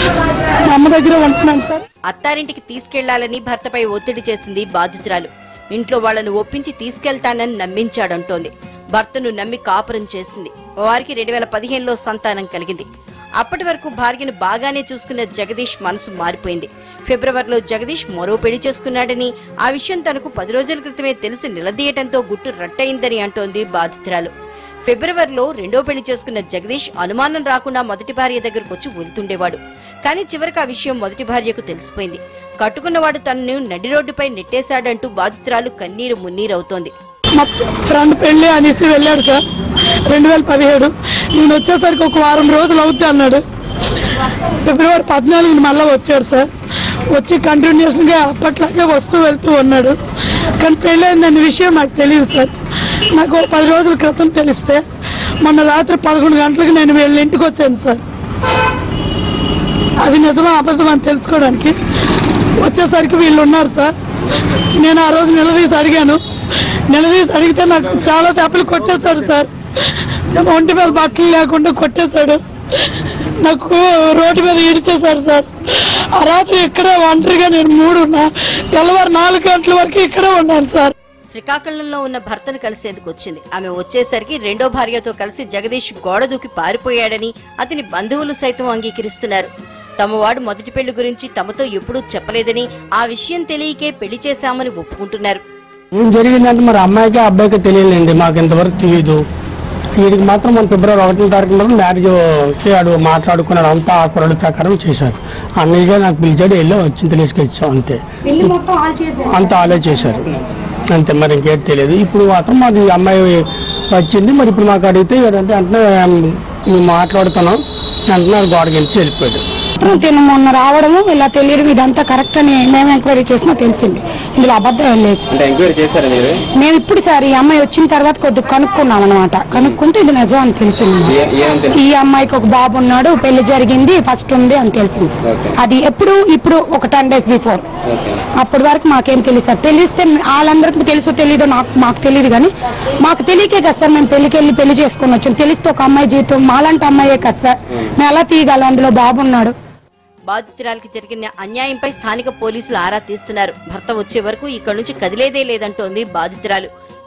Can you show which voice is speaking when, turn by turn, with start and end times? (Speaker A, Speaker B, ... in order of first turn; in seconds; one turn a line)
Speaker A: 0.7-1.8
Speaker B: 2.1-12.9
Speaker B: 13.4-24.3
Speaker B: 24.9-36.9
Speaker A: 37.4-39.4
Speaker A: 40.1-43.4
Speaker A: 44.6-46.5
Speaker A: 47.1-50.0
Speaker A: 50.6-52.5
Speaker A: 53.1-54.8
Speaker A: 55.4-58.0
Speaker A: 60.0-61.7
Speaker A: 62.6-63.9
Speaker A: 64.8-66.2
Speaker A: 66.9-69.5
Speaker A: 70.3-72.9
Speaker A: 73.4-80.9
Speaker B: 81.3-89.5
Speaker B: 90.0-95.4
Speaker C: 95.9-99.2
Speaker C: 100.0-108.6
Speaker D: 108.8-109.0
Speaker C: 109.2-110.2
Speaker C: 110.9-119.4
Speaker D: 119.8-125.3
Speaker E: 125.3-126.4
Speaker D: 126.6-131.1
Speaker E: 129.5-129.8
Speaker E: 131.0-131.8
Speaker D: 131.8-137.6
Speaker E: 135.3-135.5
Speaker E: 137.9-138.2
Speaker D: 138.4-149.5
Speaker B: 150.3-156.7